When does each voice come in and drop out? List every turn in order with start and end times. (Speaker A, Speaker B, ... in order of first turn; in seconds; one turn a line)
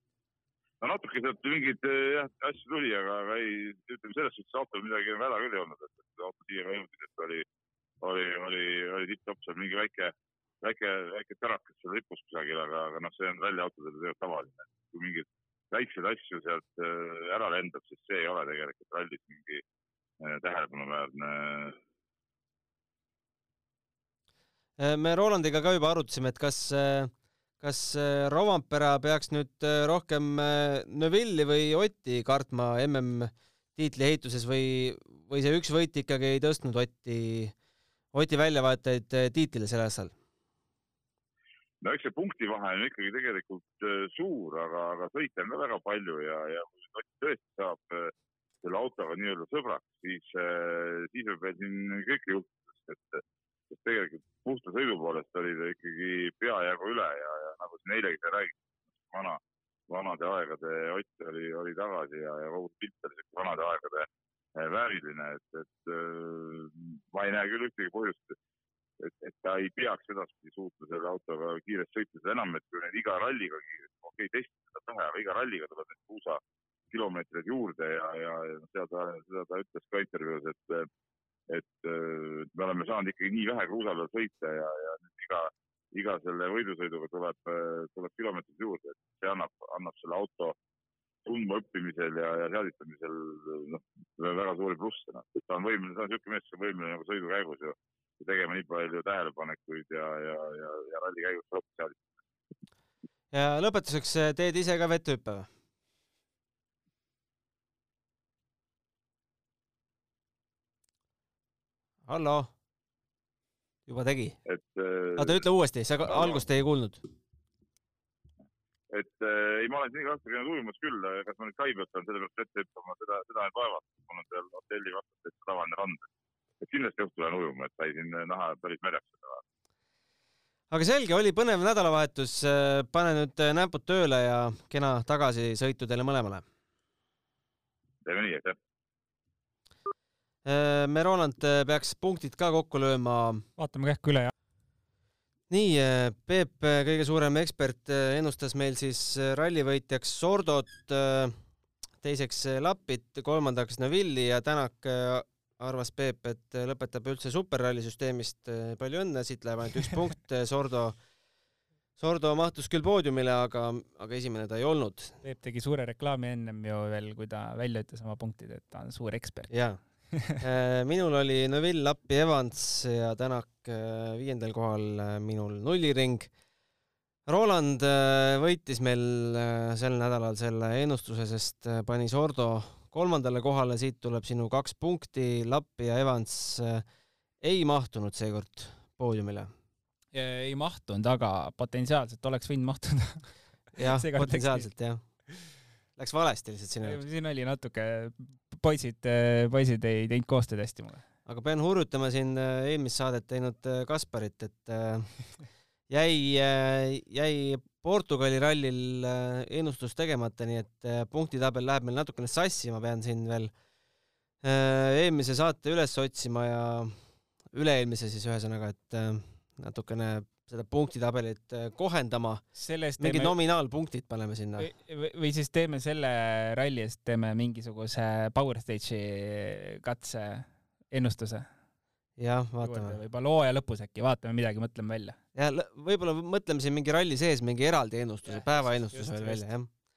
Speaker A: 0.8-7.4
Speaker A: 8.0-19.6
Speaker A: 20.2-21.8
Speaker B: 24.8-37.5
Speaker B: 38.1-40.1
Speaker A: 41.8-58.6
Speaker A: 59.1-68.3
Speaker A: 69.0-80.9
Speaker A: 81.5-90.6
Speaker A: 91.2-102.0
Speaker B: 103.3-105.5
Speaker B: 112.0-112.5
Speaker B: 113.9-114.4
Speaker A: 114.5-115.4
Speaker B: 115.2-117.0
Speaker A: 116.1-116.4
Speaker A: 118.9-126.1
Speaker A: 126.6-129.4
Speaker B: 130.7-136.4
Speaker A: 138.0-138.6
Speaker B: 140.4-143.4
Speaker C: 143.6-144.3
Speaker B: 145.5-151.3
Speaker B: 152.0-161.0
Speaker B: 162.0-165.2
Speaker C: 165.2-169.5
Speaker B: 169.5-169.8
Speaker C: 170.1-170.4
Speaker B: 170.4-176.3
Speaker B: 177.2-186.8
Speaker B: 187.4-189.5
Speaker C: 190.1-194.7
Speaker B: 193.8-195.0
Speaker B: 196.0-197.0
Speaker C: 196.8-201.0
Speaker B: 201.2-205.1
Speaker B: 205.9-213.5
Speaker B: 214.4-216.9
Speaker B: 217.5-222.4
Speaker C: 222.5-223.3
Speaker B: 223.0-224.7
Speaker C: 224.6-231.5
Speaker B: 232.2-233.0
Speaker C: 232.6-235.2
Speaker B: 235.3-239.7
Speaker C: 238.2-239.4